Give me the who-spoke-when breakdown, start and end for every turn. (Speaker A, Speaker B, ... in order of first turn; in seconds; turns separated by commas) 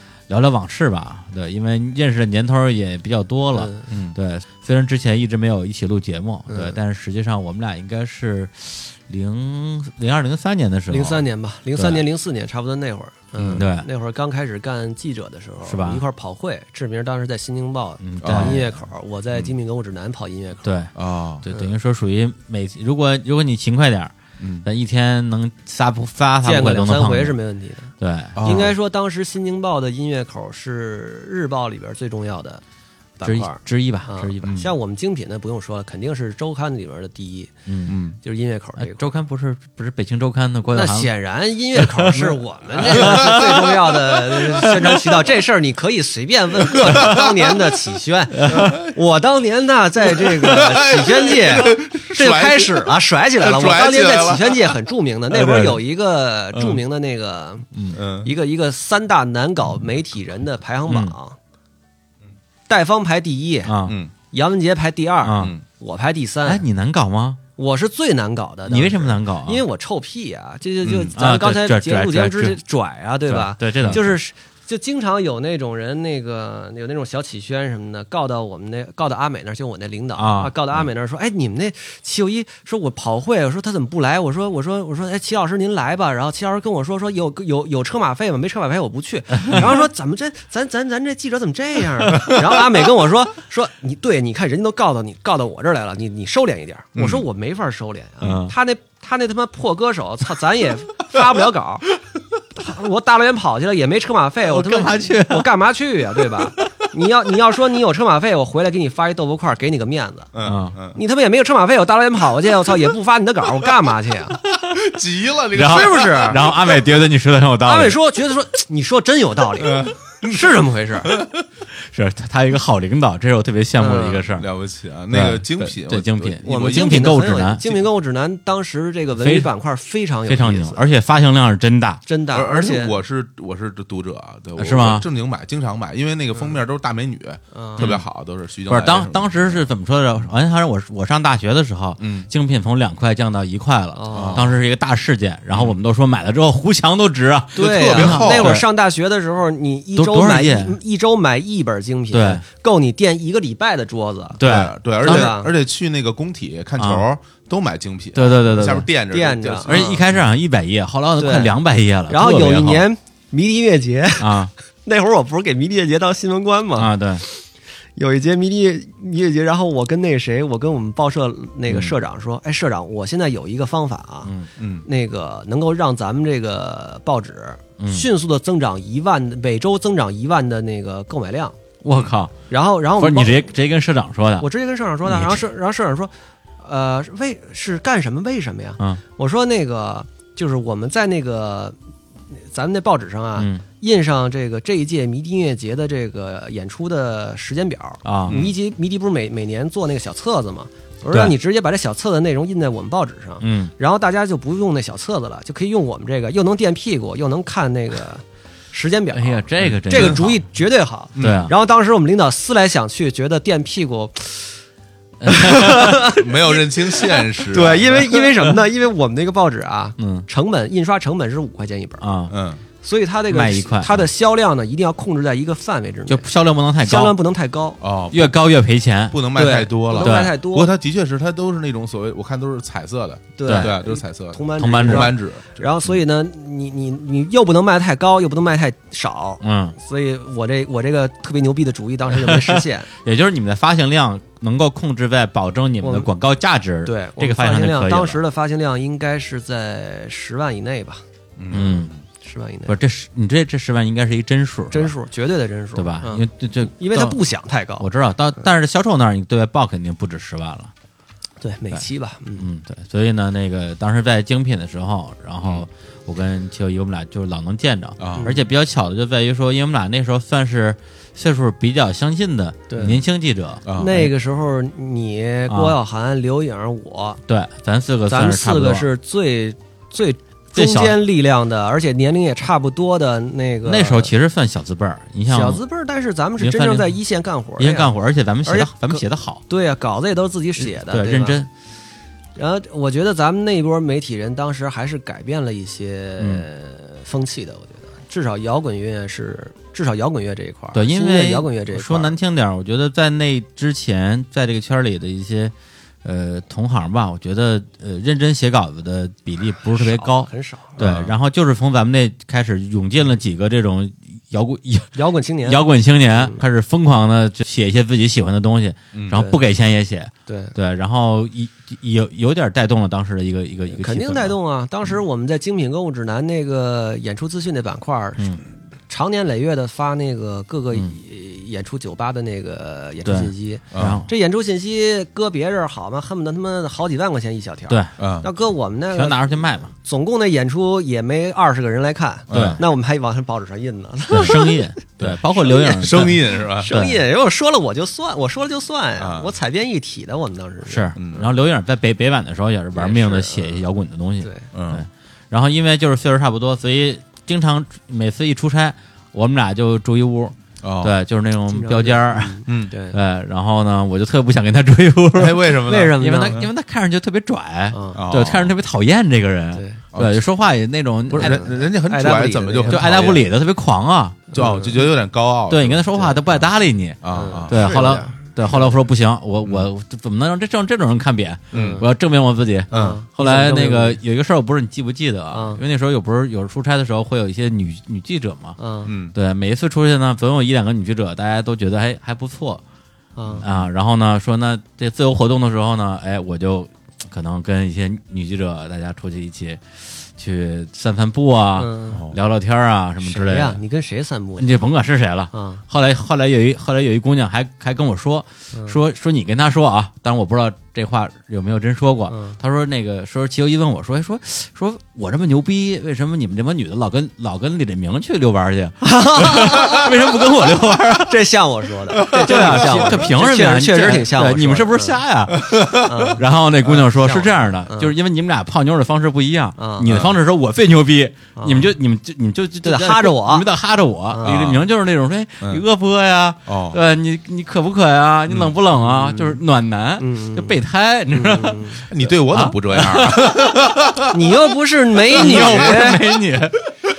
Speaker A: 0.3-11.2, Speaker B: 3.5-3.9, Speaker C: 3.9-4.2, Speaker B: 6.5-6.8, Speaker B: 10.9-20.7, Speaker A: 11.8-12.0, Speaker A: 13.4-13.9, Speaker A: 15.7-16.0, Speaker A: 18.0-18.6, Speaker C: 18.2-18.6, Speaker A: 20.6-27.4, Speaker C: 20.9-21.4, Speaker C: 24.4-24.7, Speaker B: 26.4-32.6, Speaker A: 28.0-28.7, Speaker C: 28.4-28.7, Speaker B: 33.2-37.5, Speaker A: 33.2-34.7, Speaker C: 34.4-34.7, Speaker A: 37.7-38.0, Speaker C: 37.9-38.1, Speaker B: 38.2-39.1, Speaker A: 38.8-41.1, Speaker B: 40.7-61.4, Speaker A: 41.8-43.7, Speaker C: 42.9-43.6, Speaker A: 44.4-45.0, Speaker A: 46.9-47.2, Speaker A: 48.4-48.8, Speaker C: 48.5-48.9, Speaker C: 50.2-54.8, Speaker A: 55.3-55.8, Speaker A: 56.5-56.8, Speaker A: 57.7-58.0, Speaker C: 58.0-58.3, Speaker A: 60.9-61.1, Speaker B: 62.7-63.7, Speaker A: 63.6-64.0, Speaker C: 63.9-64.1, Speaker B: 64.3-66.6, Speaker A: 65.2-65.6, Speaker A: 66.5-67.4, Speaker B: 67.6-101.9, Speaker A: 68.7-69.6, Speaker C: 70.8-71.1, Speaker A: 71.1-72.6, Speaker A: 73.3-74.2, Speaker A: 80.2-80.5, Speaker C: 97.0-97.2, Speaker A: 98.2-98.5, Speaker B: 102.6-110.3, Speaker A: 104.5-105.5, Speaker C: 110.3-111.0, Speaker A: 110.4-110.8, Speaker B: 110.9-114.4, Speaker C: 114.6-116.6, Speaker A: 115.5-118.0, Speaker B: 115.6-116.4, Speaker B: 117.7-121.1, Speaker A: 121.7-124.5, Speaker B: 123.8-124.3, Speaker C: 124.4-127.2, Speaker A: 125.1-127.7, Speaker B: 126.4-130.9, Speaker A: 129.2-129.5, Speaker A: 130.3-132.0, Speaker B: 132.1-133.0, Speaker C: 132.3-139.7, Speaker A: 134.6-135.1, Speaker B: 137.5-137.9, Speaker A: 137.8-138.1, Speaker A: 138.7-148.7, Speaker C: 142.0-142.3, Speaker B: 143.9-144.5, Speaker C: 144.1-144.5, Speaker B: 147.6-154.4, Speaker C: 147.6-148.6, Speaker A: 150.0-150.8, Speaker A: 152.1-152.4, Speaker A: 154.4-155.3, Speaker C: 154.4-160.1, Speaker B: 155.0-155.5, Speaker A: 156.8-157.1, Speaker A: 158.1-158.9, Speaker B: 159.1-160.0, Speaker A: 159.7-162.9, Speaker B: 161.2-161.6, Speaker B: 162.1-167.4, Speaker A: 164.2-164.5, Speaker A: 166.8-167.2, Speaker B: 168.0-174.3, Speaker A: 171.7-172.0, Speaker C: 174.6-174.9, Speaker B: 174.8-181.6, Speaker A: 177.8-178.1, Speaker A: 181.8-182.3, Speaker B: 182.5-183.5, Speaker A: 182.9-184.5, Speaker B: 184.4-191.8, Speaker A: 185.1-185.4, Speaker B: 192.3-214.6, Speaker A: 193.4-193.6, Speaker A: 198.0-198.5, Speaker C: 198.3-198.5, Speaker A: 203.4-203.7, Speaker A: 209.1-210.3, Speaker C: 209.6-210.3, Speaker C: 211.2-211.5, Speaker A: 211.2-211.5, Speaker A: 215.2-216.0, Speaker B: 215.3-222.1, Speaker C: 215.9-218.2, Speaker A: 220.0-220.3, Speaker A: 222.0-222.3, Speaker C: 222.3-222.6, Speaker B: 222.8-226.3, Speaker A: 223.3-224.1, Speaker A: 226.1-227.2, Speaker B: 226.8-227.8, Speaker C: 227.8-228.4, Speaker A: 228.1-229.2, Speaker C: 229.1-235.7, Speaker B: 229.3-230.7, Speaker A: 230.0-230.3, Speaker B: 233.4-242.9, Speaker A: 233.5-233.8, Speaker A: 234.6-235.1, Speaker A: 239.4-239.8, Speaker A: 242.1-248.2, Speaker B: 245.8-246.1, Speaker B: 246.8-252.8, Speaker C: 251.4-252.0, Speaker A: 251.5-251.9, Speaker A: 252.7-254.9, Speaker B: 254.7-257.9, Speaker A: 255.8-257.2, Speaker A: 257.8-260.7, Speaker B: 261.4-262.5, Speaker A: 262.4-274.1, Speaker C: 268.0-268.3, Speaker B: 268.1-268.4, Speaker B: 272.7-273.0, Speaker C: 273.6-274.0, Speaker B: 273.8-277.2, Speaker A: 275.5-275.8, Speaker A: 277.3-278.9, Speaker B: 278.1-284.1, Speaker A: 280.5-281.0, Speaker A: 283.6-285.6, Speaker B: 285.3-287.9, Speaker A: 286.4-287.0, Speaker A: 287.6-289.4, Speaker B: 288.4-291.5, Speaker A: 290.6-291.5, Speaker B: 292.4-302.1, Speaker A: 296.2-296.5, Speaker A: 300.7-324.4, Speaker B: 309.7-310.8, Speaker C: 310.8-311.1, Speaker B: 314.9-316.4, Speaker C: 318.9-319.2, Speaker B: 319.1-319.4, Speaker B: 320.3-320.6, Speaker B: 323.7-344.7, Speaker A: 333.1-334.1, Speaker C: 333.7-334.0, Speaker C: 338.0-338.3, Speaker A: 338.9-339.7, Speaker C: 342.3-342.6, Speaker A: 342.3-342.6, Speaker A: 344.1-347.0, Speaker C: 345.0-346.7, Speaker B: 345.4-350.9, Speaker C: 349.0-349.3, Speaker A: 350.6-371.5, Speaker C: 351.0-351.3, Speaker B: 352.8-353.6, Speaker C: 354.5-354.9, Speaker C: 360.6-361.0, Speaker B: 361.5-363.0, Speaker C: 362.5-362.7, Speaker C: 365.1-366.5, Speaker B: 365.7-366.4, Speaker B: 367.7-368.0, Speaker C: 367.9-368.5, Speaker B: 369.5-369.8, Speaker C: 369.9-370.3, Speaker C: 371.1-373.3, Speaker B: 371.1-373.2, Speaker A: 372.7-374.3, Speaker B: 374.3-374.8, Speaker C: 374.4-375.9, Speaker A: 375.5-388.6, Speaker B: 375.9-376.2, Speaker C: 377.0-377.9, Speaker B: 377.1-378.8, Speaker C: 381.5-381.8, Speaker B: 381.5-381.9, Speaker C: 382.7-383.0, Speaker B: 382.7-384.0, Speaker B: 385.3-385.6, Speaker B: 388.6-388.9, Speaker C: 388.9-389.2, Speaker A: 389.1-392.6, Speaker B: 393.2-393.5, Speaker A: 393.4-403.6, Speaker B: 401.6-402.0, Speaker C: 401.9-402.2, Speaker B: 403.0-404.6, Speaker A: 404.4-421.2, Speaker B: 405.3-405.6, Speaker B: 408.5-408.8, Speaker B: 412.1-412.4, Speaker B: 418.8-419.9, Speaker B: 421.0-425.0, Speaker C: 422.0-423.1, Speaker A: 422.0-443.7, Speaker C: 425.3-425.9, Speaker B: 425.8-427.9, Speaker B: 429.6-430.0, Speaker C: 429.9-430.2, Speaker B: 431.4-431.7, Speaker B: 432.6-433.5, Speaker B: 434.1-434.4, Speaker C: 434.2-434.6, Speaker C: 436.5-436.8, Speaker C: 438.3-438.6, Speaker B: 438.8-439.3, Speaker B: 440.0-441.9, Speaker C: 441.9-444.1, Speaker B: 444.1-446.0, Speaker A: 445.1-446.7, Speaker C: 445.2-445.8